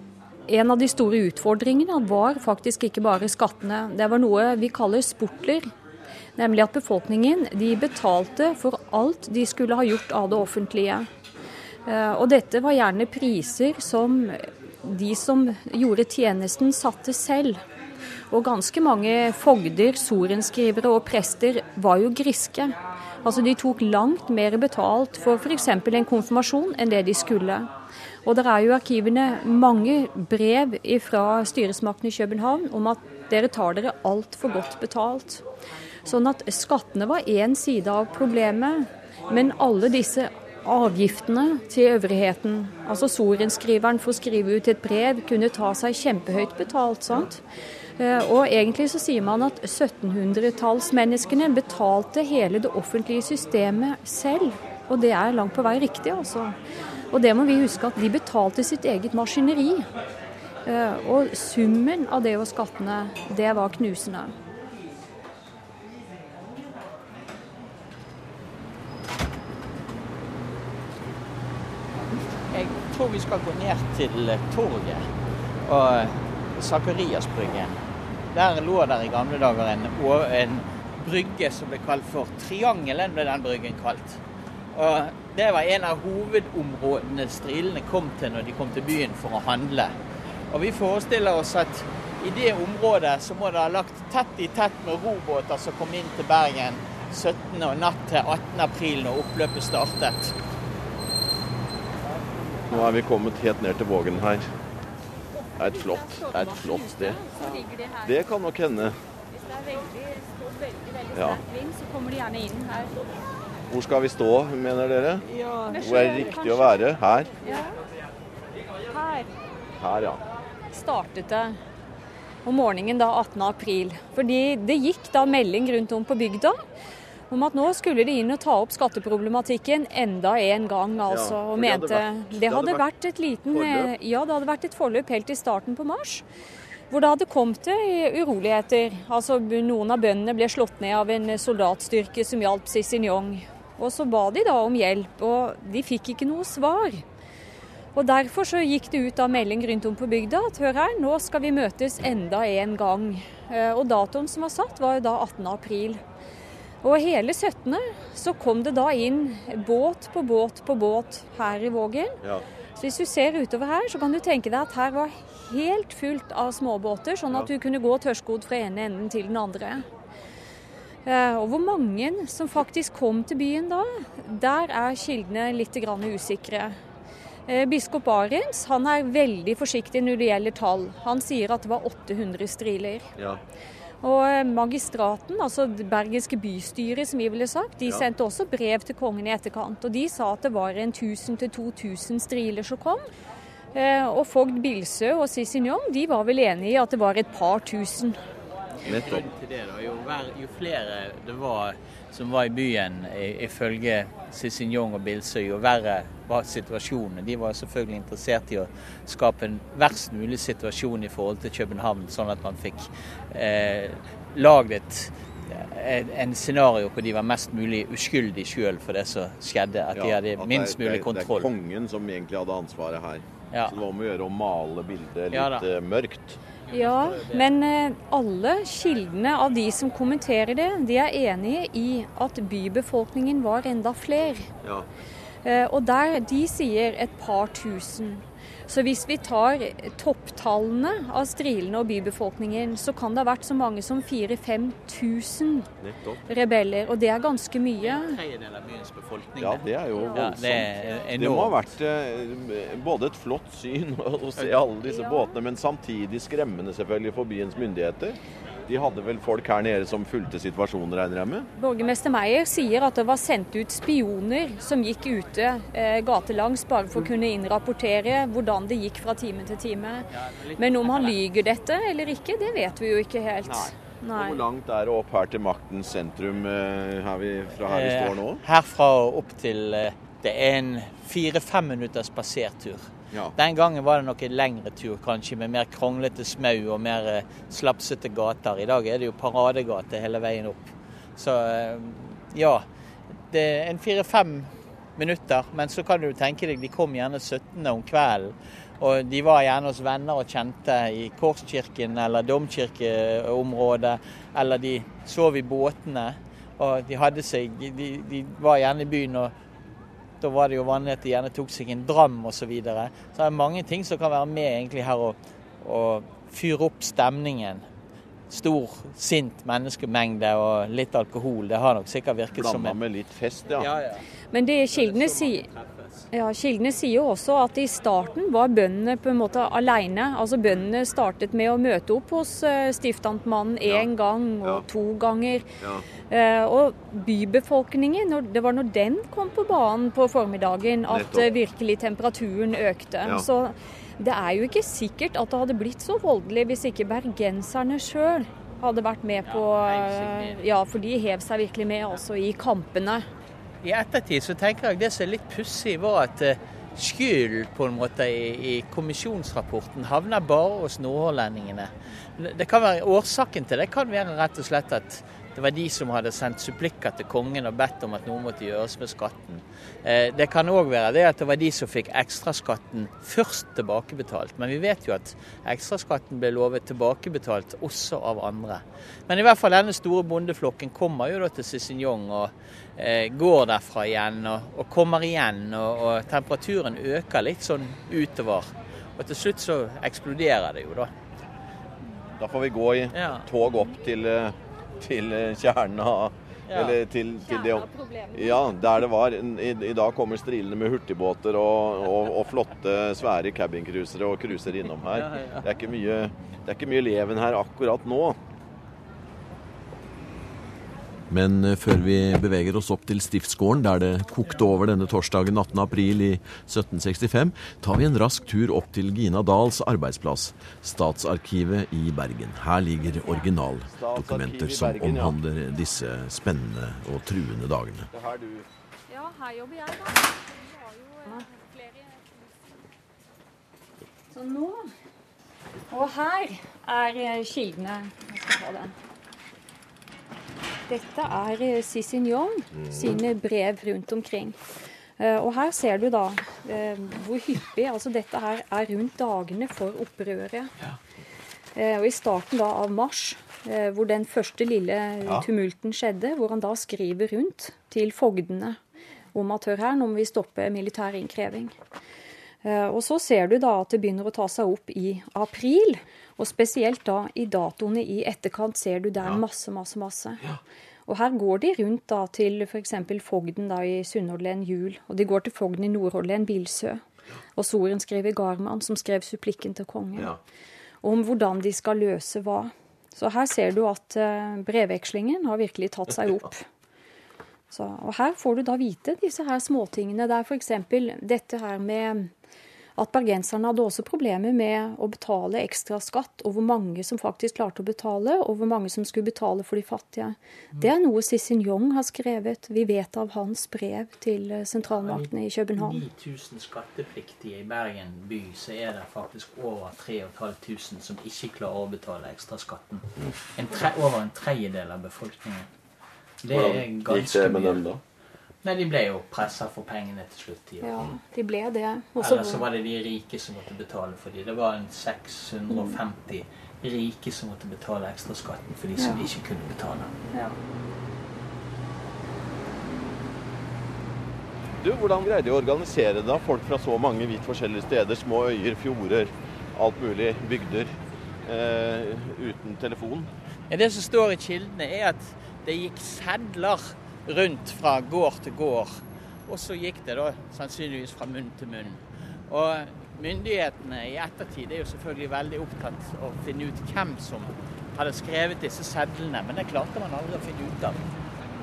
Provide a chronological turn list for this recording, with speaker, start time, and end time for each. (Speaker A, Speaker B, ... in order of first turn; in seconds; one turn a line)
Speaker A: 0.5-5.7
Speaker A: 6.4-11.1
Speaker A: 11.8-17.6
Speaker A: 18.3-27.7
Speaker A: 28.2-35.4
Speaker A: 36.0-47.4
Speaker A: 48.0-56.5
Speaker A: 57.1-59.9
Speaker A: 60.6-64.3
Speaker B: 72.3-75.0
Speaker B: 75.6-77.8
Speaker B: 78.3-84.2
Speaker B: 84.7-89.9
Speaker B: 90.5-100.3
Speaker C: 102.7-104.5
Speaker A: 105.5-108.2
Speaker C: 105.6-107.2
Speaker C: 108.0-109.0
Speaker A: 109.3-112.9
Speaker C: 111.1-111.4
Speaker C: 113.7-117.3
Speaker A: 115.4-116.7
Speaker A: 117.4-117.7
Speaker A: 118.9-119.3
Speaker C: 119.8-120.2
Speaker A: 120.7-121.6
Speaker A: 122.4-126.6
Speaker A: 127.3-136.2
Speaker C: 131.1-132.8
Speaker C: 133.5-133.9
Speaker A: 136.9-147.0
Speaker A: 147.9-156.0
Speaker A: 156.8-162.2
Speaker A: 162.8-169.9
Speaker A: 171.0-176.8
Speaker A: 177.5-183.1
Speaker A: 184.0-193.1
Speaker A: 193.7-198.2
Speaker B: 198.8-221.5
Speaker C: 198.8-199.3
Speaker C: 219.9-226.4
Speaker B: 225.3-225.7
Speaker B: 226.7-227.5
Speaker A: 226.7-234.5
Speaker C: 234.6-234.9
Speaker A: 235.4-245.7
Speaker C: 245.8-246.2
Speaker A: 246.3-248.2
Speaker B: 247.8-251.6
Speaker C: 249.4-261.5
Speaker A: 249.9-250.3
Speaker A: 254.8-255.3
Speaker A: 261.6-274.4
Speaker B: 270.1-271.2
Speaker C: 273.4-278.4
Speaker B: 277.6-292.6
Speaker B: 293.3-309.3
Speaker B: 310.2-317.6
Speaker B: 318.3-322.8
Speaker C: 322.3-323.7
Speaker B: 323.5-324.0
Speaker A: 324.3-325.5
Speaker B: 324.7-326.1
Speaker A: 326.1-335.5
Speaker C: 333.6-333.9
Speaker C: 335.6-335.9
Speaker A: 336.1-353.1
Speaker C: 340.9-341.3
Speaker B: 349.3-350.4
Speaker B: 353.6-390.9
Speaker C: 392.2-408.2
Speaker B: 392.9-393.3
Speaker B: 396.5-396.8
Speaker A: 397.2-398.4
Speaker B: 404.9-405.5
Speaker D: 411.1-427.9
Speaker C: 423.7-425.1
Speaker C: 427.9-428.5
Speaker A: 428.9-432.0
Speaker A: 434.1-434.7
Speaker A: 435.7-438.7
Speaker A: 440.7-444.4
Speaker A: 445.0-450.5
Speaker A: 451.6-458.6
Speaker A: 459.1-461.5
Speaker A: 462.4-470.2
Speaker A: 470.9-476.8
Speaker A: 477.4-480.1
Speaker A: 480.8-486.5
Speaker A: 487.5-492.1
Speaker A: 492.8-505.8
Speaker B: 504.8-515.5
Speaker B: 516.2-517.6
Speaker C: 516.3-517.8
Speaker B: 518.4-520.8
Speaker A: 520.6-522.4
Speaker B: 522.0-529.9
Speaker A: 525.5-525.8
Speaker A: 528.8-529.1
Speaker A: 530.1-530.4
Speaker C: 534.6-540.7
Speaker C: 541.2-543.1
Speaker B: 543.5-560.9